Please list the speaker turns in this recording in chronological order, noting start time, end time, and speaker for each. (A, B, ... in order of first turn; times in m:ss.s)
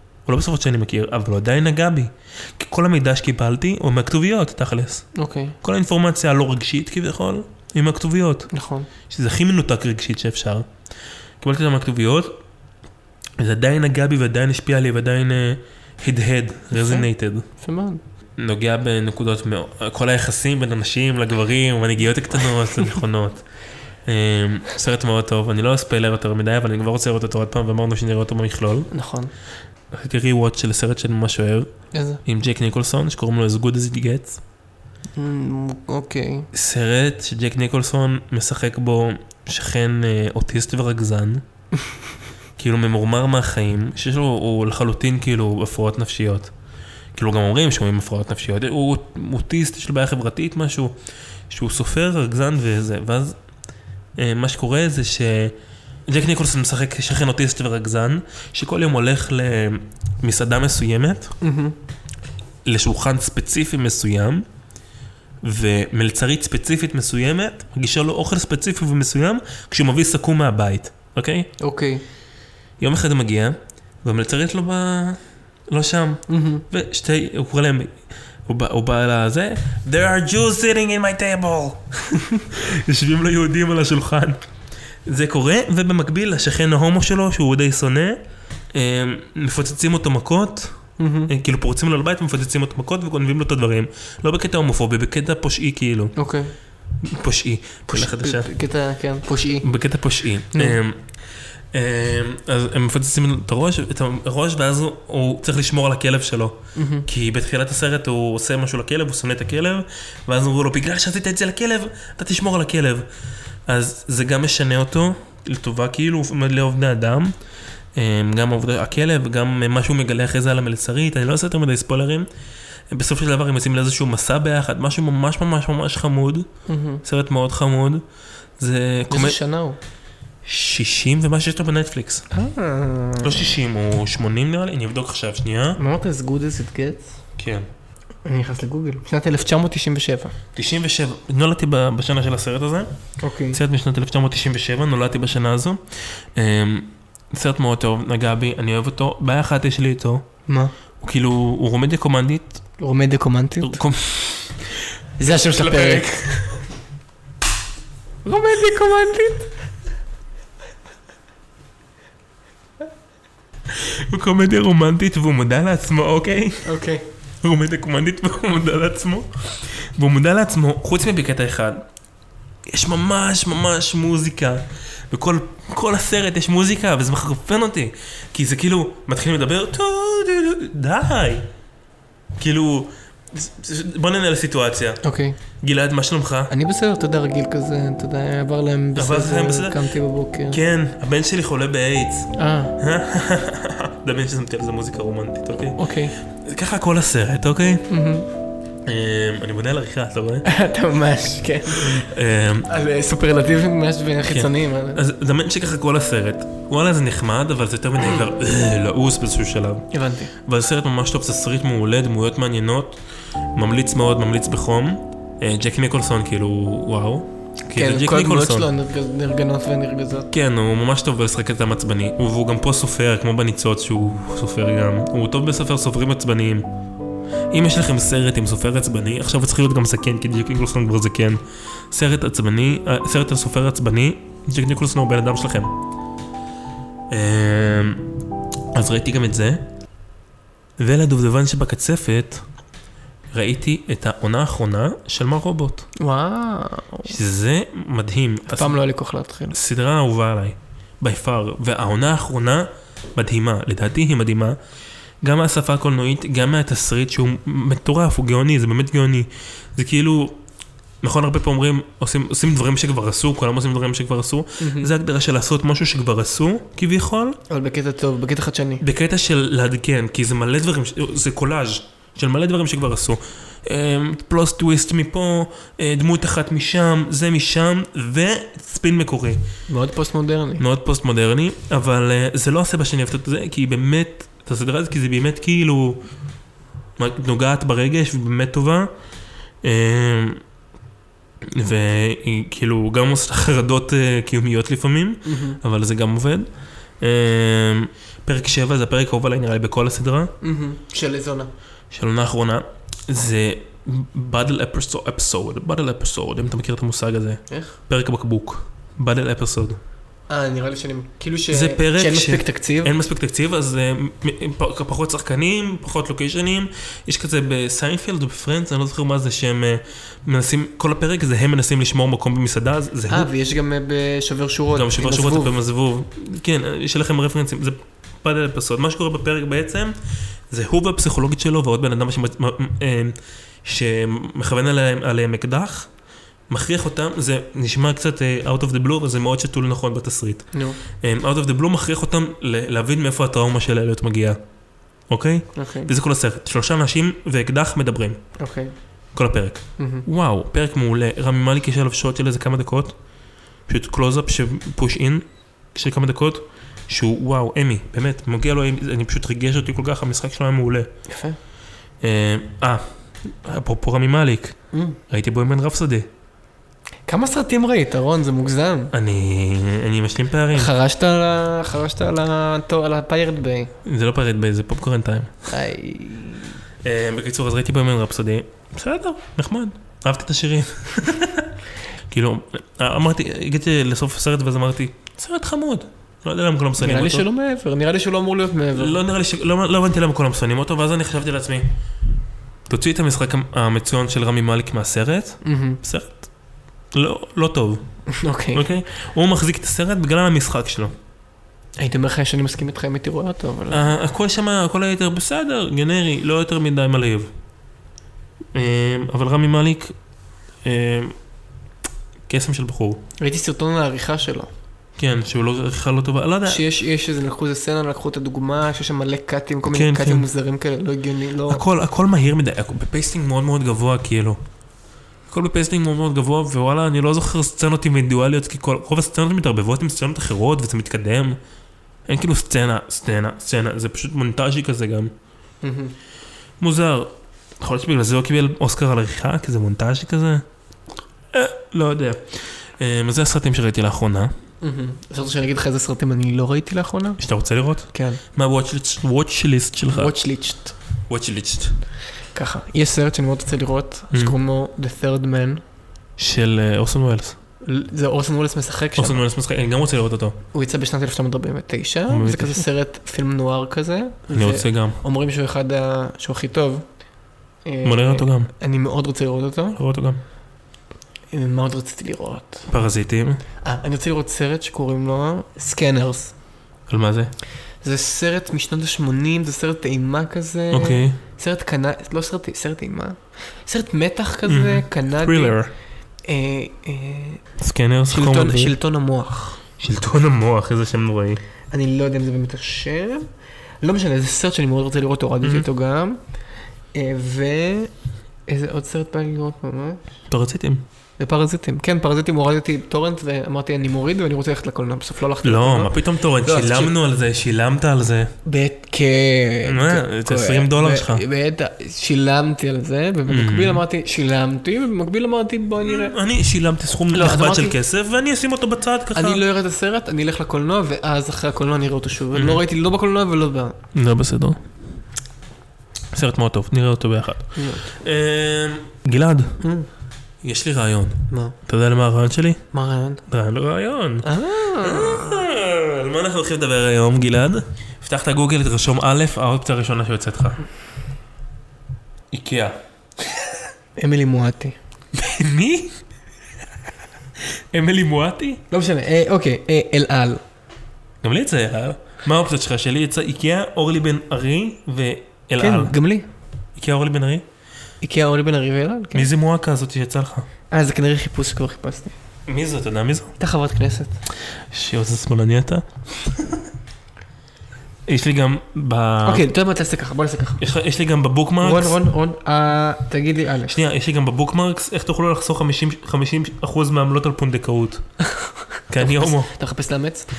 0:00.3-0:05.1 A
0:05.2-0:05.6 B
0:05.6-0:08.5 A
0:08.5-0:08.9 B
0:09.1-0:10.7 A
0:11.4-0:12.4 A
0:13.4-0:17.4 A
0:16.7-0:18.0 B
0:18.4-0:23.5 A
0:24.0-0:28.9 A
0:28.9-0:29.3 B
0:29.9-0:31.7 A
0:31.9-0:32.2 B
0:32.2-0:34.4 A
0:35.2-0:36.5 B
0:36.5-0:41.4 A
0:42.6-0:46.5 A
0:47.1-0:51.0 A
0:51.5-0:53.4 A
0:54.2-0:55.6 A
0:56.1-1:01.4 A
1:01.4-1:01.8 B
1:02.6-1:04.5 A
1:05.4-1:11.5 A
1:11.6-1:12.0 B
1:12.8-1:18.0 A
1:16.3-1:16.6 B
1:18.5-1:24.4 A
1:25.1-1:28.2 A
1:28.7-1:36.2 A
1:31.0-1:31.3 B
1:36.2-1:36.5 B
1:37.0-1:38.5 A
1:37.9-1:39.7 B
1:39.6-1:41.1 A
1:40.5-1:40.8 B
1:41.7-1:53.1 A
1:46.8-1:47.1 B
1:53.7-1:57.4 A
1:58.0-2:02.3 A
2:02.9-2:06.5 A
2:06.7-2:07.0 B
2:07.0-2:08.0 A
2:08.6-2:09.4 A
2:09.1-2:09.8 B
2:10.4-2:12.2 A
2:12.3-2:13.5 B
2:13.2-2:15.8 A
2:15.8-2:17.2 B
2:17.4-2:17.7 A
2:18.2-2:20.4 B
2:20.6-2:22.9 A
2:23.2-2:23.6 B
2:23.5-2:30.3 A
2:30.5-2:30.7 B
2:31.0-2:32.6 A
2:32.8-2:33.8 B
2:33.6-2:34.6 A
2:35.2-2:36.3 B
2:35.2-2:36.6 A
2:38.2-2:39.5 B
2:43.7-2:46.8 A
2:46.6-2:47.0 B
2:47.4-2:51.9 A
2:52.7-3:01.5 A
3:02.4-3:05.0 A
3:05.0-3:05.4 B
3:05.6-3:06.5 A
3:06.5-3:10.6 B
3:09.0-3:09.9 A
3:10.5-3:17.9 A
3:12.4-3:12.8 B
3:15.8-3:16.1 B
3:17.9-3:18.3 B
3:18.8-3:20.5 A
3:20.4-3:22.1 B
3:21.8-3:22.7 A
3:22.7-3:25.0 B
3:24.3-3:33.0 A
3:29.9-3:30.3 B
3:33.6-3:38.7 A
3:37.7-3:40.3 B
3:40.3-3:46.7 A
3:47.5-3:55.8 A
3:57.1-3:58.1 A
3:58.7-3:59.6 A
4:00.8-4:02.4 A
4:03.3-4:05.9 A
4:06.0-4:07.1 B
4:07.1-4:08.8 A
4:08.5-4:09.6 B
4:09.5-4:14.6 A
4:15.2-4:20.4 A
4:21.0-4:27.4 A
4:24.6-4:24.9 B
4:27.5-4:28.8 B
4:28.8-4:39.4 A
4:39.7-4:40.6 B
4:40.6-4:46.0 A
4:47.0-4:48.9 A
4:49.6-4:50.4 A
4:51.4-4:56.5 A
4:55.2-4:55.6 B
4:57.0-5:00.3 A
5:00.4-5:01.5 B
5:01.9-5:09.8 A
5:07.5-5:07.8 B
5:10.3-5:12.9 B
5:11.5-5:23.3 A
5:23.1-5:25.5 B
5:24.7-5:30.0 A
5:30.5-5:35.9 A
5:36.5-5:44.4 A
5:40.5-5:40.8 B
5:45.1-5:48.3 A
5:45.6-5:45.9 B
5:48.4-5:48.7 B
5:49.1-5:53.0 A
5:49.8-5:50.1 B
5:53.7-6:00.9 A
6:01.1-6:01.4 B
6:02.0-6:06.1 A
6:04.7-6:05.0 B
6:07.1-6:08.9 B
6:08.9-6:10.7 A
6:10.5-6:13.7 B
6:13.8-6:15.4 A
6:15.5-6:16.6 B
6:16.8-6:21.6 A
6:22.1-6:27.3 A
6:26.8-6:29.0 B
6:28.8-6:31.7 A
6:32.7-6:36.3 A
6:35.4-6:35.8 B
6:36.9-6:41.0 A
6:38.1-6:38.6 B
6:41.8-6:43.9 B
6:43.7-6:47.3 A
6:48.5-6:50.0 A
6:50.6-6:51.2 A
6:52.3-6:53.0 A
6:53.2-6:54.5 B
6:55.0-6:56.6 A
6:56.5-7:01.6 B
6:59.7-7:00.3 A
7:01.5-7:04.4 A
7:05.3-7:11.4 A
7:12.1-7:15.1 A
7:15.6-7:16.0 B
7:16.6-7:20.4 A
7:21.3-7:24.4 A
7:24.6-7:27.2 B
7:27.2-7:30.2 A
7:27.9-7:28.2 B
7:29.9-7:30.7 B
7:31.1-7:31.8 A
7:32.3-7:35.6 B
7:36.2-7:37.4 A
7:37.6-7:39.2 B
7:39.0-7:40.4 A
7:40.5-7:46.9 B
7:42.1-7:42.6 A
7:44.3-7:45.0 A
7:47.6-7:49.8 B
7:47.8-7:48.5 A
7:49.8-7:50.2 A
7:51.3-7:52.7 B
7:52.7-7:53.4 A
7:53.6-7:56.3 B
7:56.9-7:57.3 A
7:57.8-8:05.6 B
8:00.7-8:01.2 A
8:04.5-8:05.7 A
8:06.3-8:07.4 B
8:07.6-8:08.8 A
8:08.1-8:09.6 B
8:09.8-8:11.4 A
8:11.7-8:13.3 B
8:13.8-8:16.2 B
8:15.4-8:15.7 A
8:16.9-8:17.9 B
8:18.5-8:20.0 B
8:20.3-8:20.8 A
8:21.2-8:27.0 B
8:25.4-8:28.3 A
8:28.4-8:36.2 B
8:29.6-8:31.2 A
8:33.3-8:33.8 A
8:35.8-8:39.4 A
8:37.1-8:37.8 B
8:39.1-8:43.8 B
8:42.3-8:42.6 A
8:43.9-8:44.6 A
8:46.1-8:49.6 A
8:47.6-8:47.9 B
8:49.6-8:49.9 B
8:50.4-8:52.6 A
8:51.3-8:51.6 B
8:52.7-8:53.2 B
8:53.3-9:00.6 A
8:54.2-8:55.4 B
9:02.3-9:02.8 A
9:04.0-9:04.8 B
9:05.1-9:06.0 A
9:07.5-9:08.6 A
9:08.7-9:10.4 B
9:11.2-9:16.0 A
9:15.6-9:16.3 B
9:16.8-9:17.4 A
9:18.0-9:19.3 B
9:19.1-9:20.5 A
9:20.7-9:22.2 B
9:22.5-9:23.4 A
9:23.4-9:24.2 B
9:24.6-9:26.6 A
9:28.1-9:29.5 A
9:29.2-9:30.6 B
9:30.6-9:32.0 A
9:31.6-9:33.8 B
9:33.7-9:38.1 A
9:38.3-9:40.3 B
9:38.9-9:39.5 A